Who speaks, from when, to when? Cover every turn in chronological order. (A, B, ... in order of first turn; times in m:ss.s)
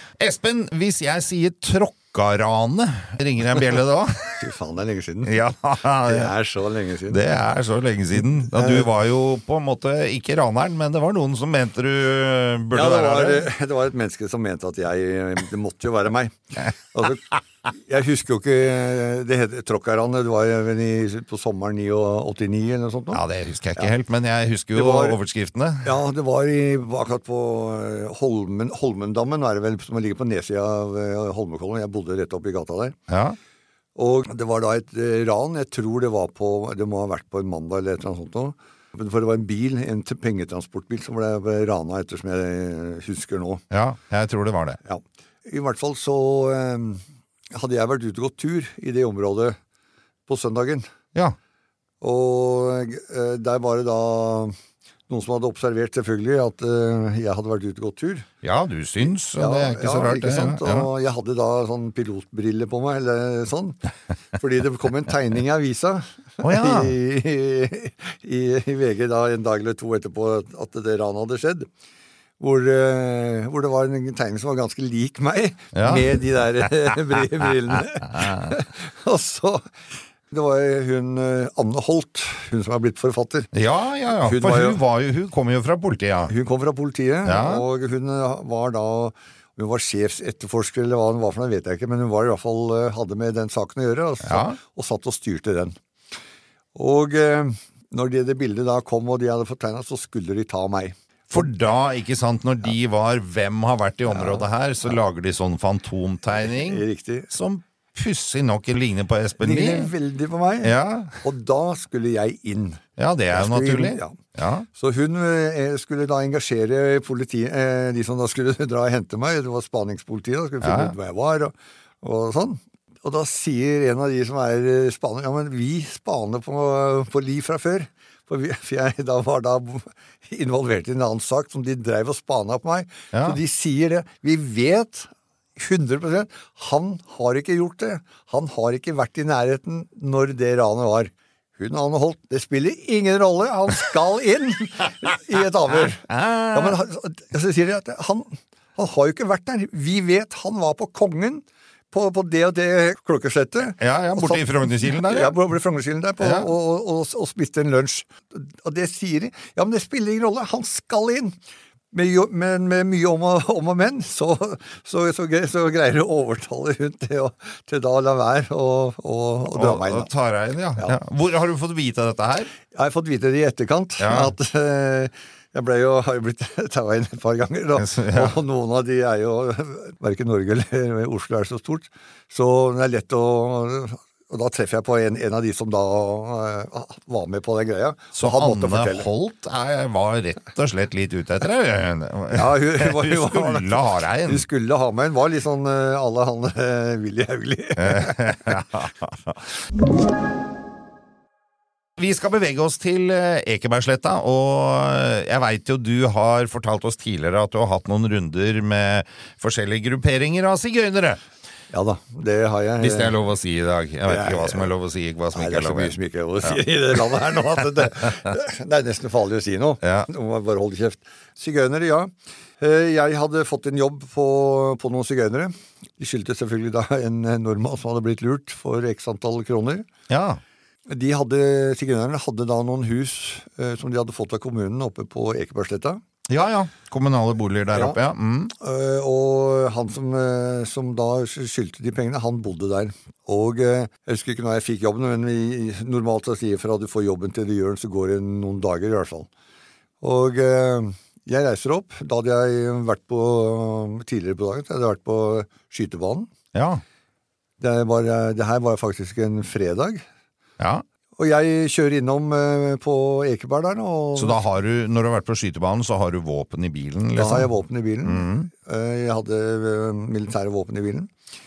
0:00.2-0:04.4 A
0:04.4-0:07.2 B
0:05.3-0:06.3 A
0:07.1-0:13.5 A
0:08.5-0:08.9 B
0:12.7-0:23.2 B
0:23.1-0:26.0 A
0:24.7-0:25.2 B
0:25.8-0:33.0 B
0:33.1-0:33.4 A
0:34.0-0:43.6 B
0:43.7-0:44.8 A
0:44.8-0:49.6 B
0:50.3-0:50.9 B
0:52.0-0:54.6 B
0:55.1-0:58.3 B
0:58.4-1:00.9 A
0:59.3-1:03.8 B
1:04.3-1:11.7 B
1:06.4-1:06.9 A
1:12.4-1:19.6 B
1:15.7-1:16.1 A
1:20.3-1:23.5 B
1:23.5-1:26.3 A
1:24.2-1:24.8 B
1:26.3-1:35.8 B
1:27.2-1:27.6 A
1:34.2-1:34.6 A
1:36.8-1:41.5 B
1:41.3-1:49.9 A
1:44.1-1:44.4 B
1:46.4-1:47.3 B
1:49.4-1:54.2 B
1:50.6-1:51.2 A
1:53.0-1:54.7 A
1:54.7-2:41.4 B
2:00.6-2:01.0 A
2:13.1-2:13.4 A
2:26.1-2:26.8 A
2:33.8-2:35.4 A
2:36.2-2:36.5 A
2:41.9-2:50.1 B
2:49.5-2:52.5 A
2:52.7-3:09.1 B
2:54.0-2:54.3 A
2:57.8-2:58.4 A
3:08.2-3:14.4 A
3:12.3-3:18.6 B
3:17.8-3:19.4 A
3:22.0-3:31.2 A
3:31.7-3:33.2 B
3:32.8-3:36.6 A
3:34.1-3:34.7 B
3:35.3-3:49.9 B
3:39.8-3:40.1 A
3:50.1-3:50.4 A
3:50.9-3:56.0 B
3:56.3-3:58.5 A
3:58.6-4:09.3 B
4:10.0-4:16.3 B
4:16.5-4:16.8 A
4:17.6-4:20.0 B
4:20.6-4:20.8 A
4:21.2-4:24.4 B
4:24.2-4:27.5 A
4:27.2-4:31.1 B
4:28.0-4:28.5 A